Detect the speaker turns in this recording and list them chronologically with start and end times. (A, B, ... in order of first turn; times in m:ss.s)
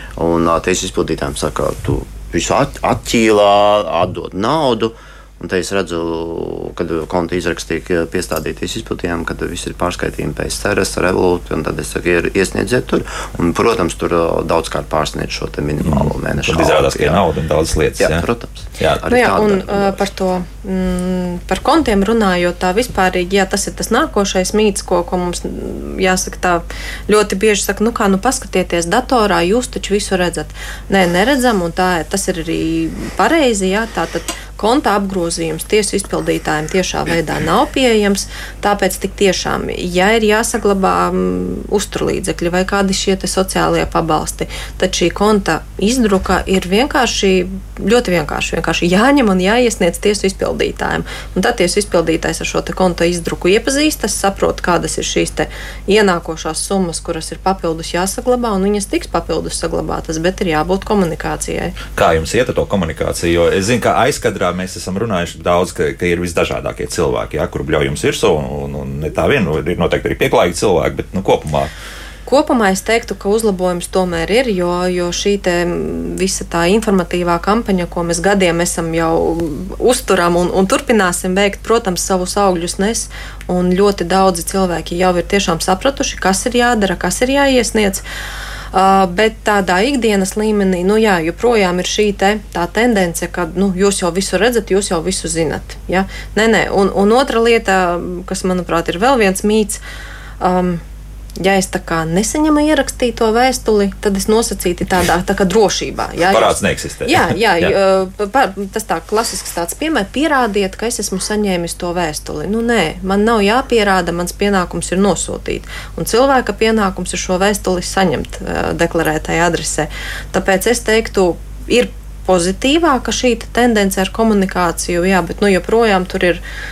0:00.2-0:17.2 A
0:15.8-0:18.3 B
0:18.0-0:20.0 A
0:19.0-1:01.8 C
1:01.9-1:11.7 B
1:12.3-1:28.0 C
1:28.7-1:39.8 C
1:40.4-1:40.8 C
1:41.4-2:06.4 C
1:46.2-1:47.8 B